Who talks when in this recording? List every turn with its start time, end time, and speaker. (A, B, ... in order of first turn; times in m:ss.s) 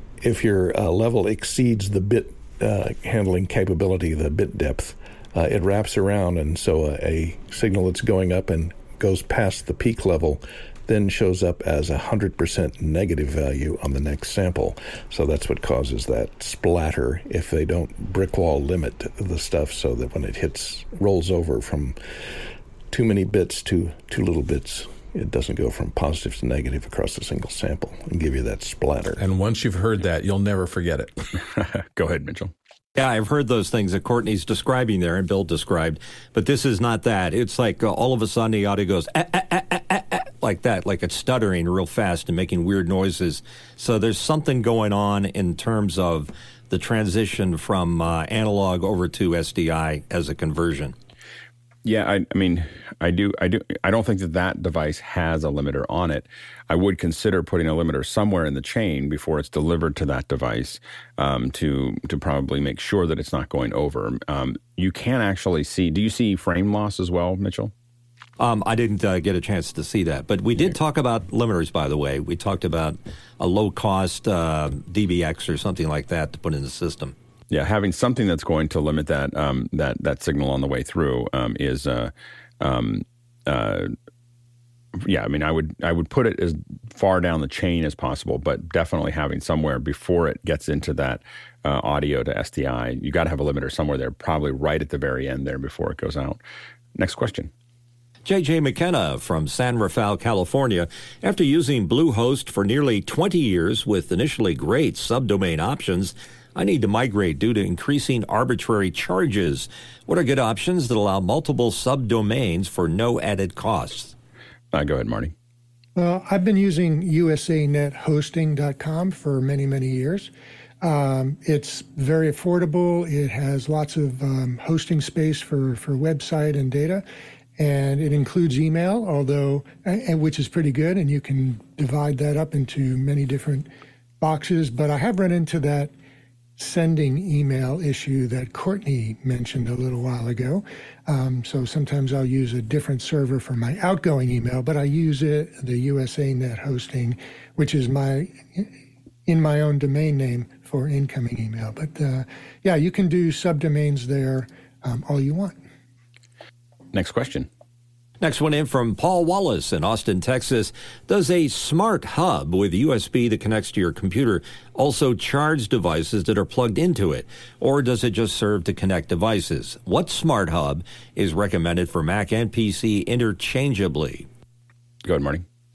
0:00.2-0:22.0 A
0:22.9-0:29.2 A
0:29.2-0:31.3 B
0:31.4-0:32.5 C
0:33.0-0:50.9 D
0:51.8-1:07.7 C
1:08.4-1:17.1 D
1:17.5-1:23.9 C
1:25.0-1:36.4 C
1:36.9-1:37.5 C
1:38.2-1:54.1 D
1:54.7-1:55.3 C
1:56.0-2:00.3 E
2:00.8-2:07.0 E
2:07.6-2:13.7 E
2:14.2-2:15.9 E
2:16.6-2:28.7 E
2:29.2-2:35.6 E
2:36.9-2:37.5 C
2:38.2-2:54.3 D
2:55.0-2:55.4 C